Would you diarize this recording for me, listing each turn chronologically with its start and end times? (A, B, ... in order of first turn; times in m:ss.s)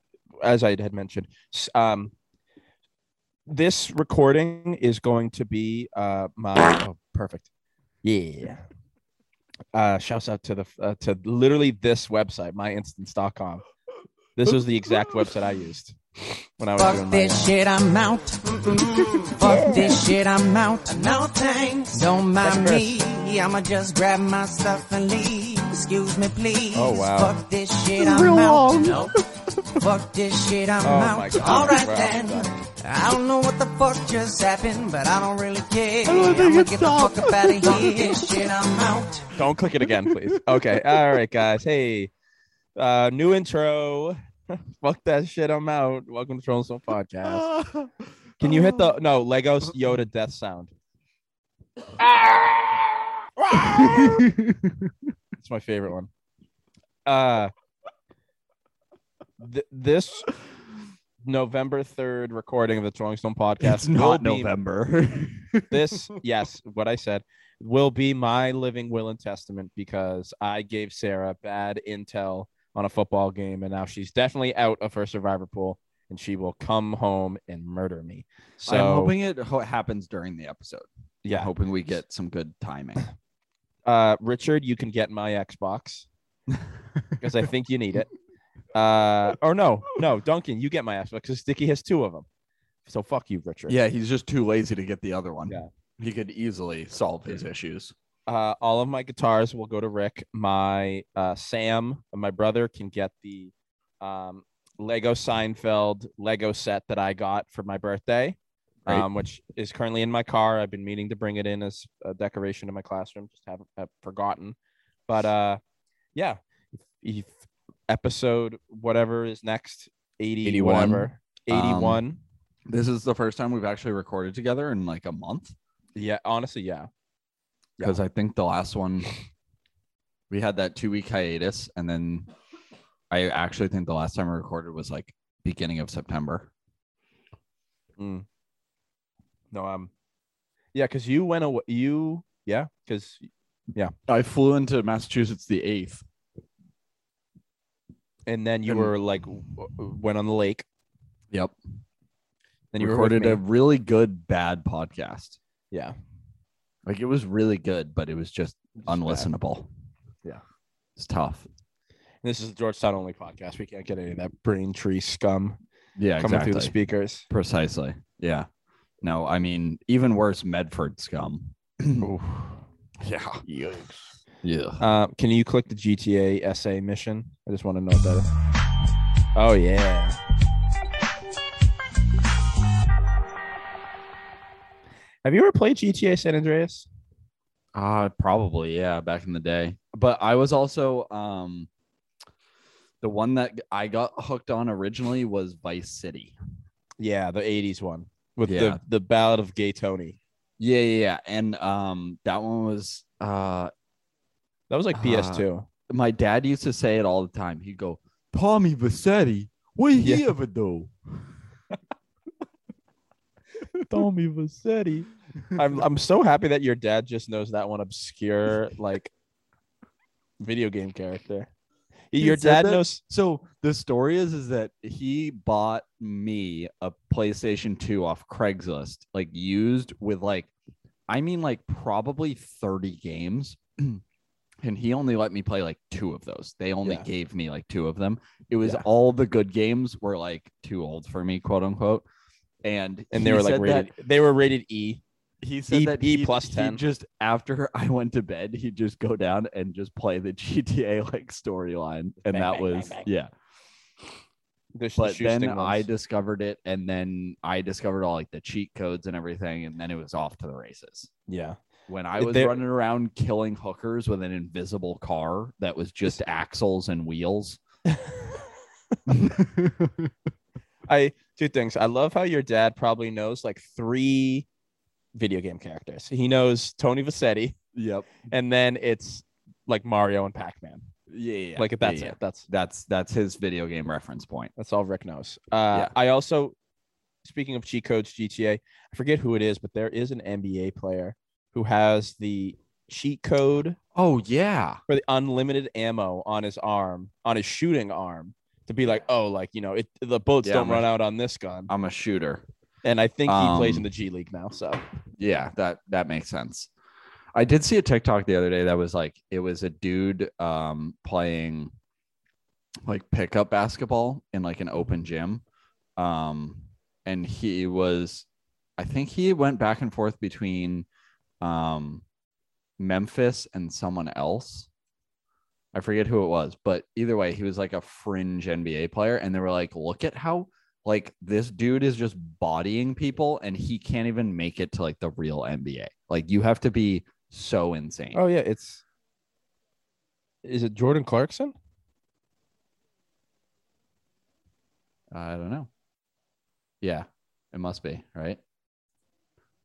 0:00.4-0:02.1 A
0:03.5-0:07.5 A
0:08.0-0:08.6 A
0:09.7-0:13.6 A
0:14.4-0:16.0 A
0:14.5-0:15.3 B
0:16.6-0:17.5 A
0:16.8-0:29.1 C
0:19.4-0:20.0 A
0:22.4-0:22.9 A
0:26.7-0:27.4 A
0:28.0-0:29.8 B
0:29.7-0:39.3 C
0:30.8-0:32.5 A
0:31.4-0:31.7 B
0:36.0-0:38.3 B
0:39.4-0:42.1 A
0:40.0-0:41.2 B
0:42.8-0:47.5 A
0:47.2-0:48.9 B
0:48.4-0:50.7 A
0:53.5-0:54.0 A
0:53.5-0:55.0 B
0:55.4-0:56.1 A
0:57.0-0:57.5 A
0:59.4-1:00.3 A
1:01.2-1:04.5 A
1:03.6-1:06.1 B
1:05.7-1:19.1 A
1:18.6-1:23.0 B
1:21.2-1:21.5 A
1:23.8-1:26.1 A
1:26.5-1:27.4 B
1:27.2-1:28.1 A
1:28.7-1:32.3 A
1:32.8-1:33.7 A
1:33.7-1:37.9 B
1:38.3-1:54.6 A
1:55.1-1:55.6 A
1:56.1-2:02.2 A
2:00.4-2:02.0 B
2:02.7-2:05.6 B
2:06.0-2:06.9 A
2:07.8-2:09.1 B
2:10.3-2:12.3 B
2:13.1-2:16.5 B
2:18.0-2:18.2 A
2:19.5-2:19.9 A
2:20.7-2:23.9 A
2:24.1-2:26.0 B
2:28.3-2:30.6 A
2:28.6-2:28.9 B
2:31.3-2:31.6 B
2:32.7-2:33.4 A
2:32.8-2:35.4 B
2:36.8-2:39.7 B
2:38.8-2:39.3 A
2:41.0-2:41.5 B
2:42.2-2:45.6 A
2:46.0-2:46.8 B
2:46.2-2:47.2 A
2:47.3-2:48.5 B
2:49.0-2:52.1 B
2:52.0-2:52.6 A
2:53.0-2:53.4 B
2:53.4-2:54.2 A
2:54.4-2:54.8 B
2:54.8-2:58.3 A
2:59.3-3:00.2 A
3:05.2-3:06.9 A
3:07.7-3:11.7 B
3:13.0-3:16.4 B
3:17.0-3:20.2 A
3:18.4-3:18.8 B
3:20.6-3:23.7 B
3:24.7-3:25.7 A
3:24.9-3:31.3 B
3:30.0-3:30.3 A
3:33.9-3:39.1 A
3:40.4-3:41.5 A
3:42.1-3:43.0 A
3:42.2-3:50.5 B
3:51.1-3:54.0 B
3:54.6-4:02.0 B
3:56.8-3:57.1 A
4:02.6-4:03.9 B
4:03.1-4:05.0 A
4:05.4-4:13.3 B
4:05.7-4:06.8 A
4:12.2-4:13.1 A
4:14.7-4:15.9 A
4:15.0-4:21.1 B
4:21.3-4:21.6 A
4:21.9-4:27.6 B
4:22.2-4:22.6 A
4:27.9-4:28.2 A
4:29.1-4:30.1 B
4:30.9-4:34.5 A
4:35.1-4:37.6 A
4:37.7-4:38.2 B
4:38.3-4:40.9 A
4:41.1-4:44.5 B
4:41.6-4:42.5 A
4:44.6-4:46.5 A
4:47.2-4:53.8 A
4:53.9-4:54.8 B
4:54.9-5:01.7 A
5:00.4-5:00.8 B
5:01.7-5:02.4 B
5:02.8-5:04.8 A
5:03.3-5:03.8 B
5:05.2-5:06.7 B
5:07.3-5:11.7 B
5:12.8-5:15.4 B
5:16.0-5:18.2 B
5:18.8-5:20.9 B
5:21.4-5:22.0 B
5:22.8-5:24.7 B
5:25.7-5:38.2 B
5:38.1-5:38.8 A
5:40.4-5:41.5 A
5:45.1-5:45.7 B
5:46.8-5:48.4 B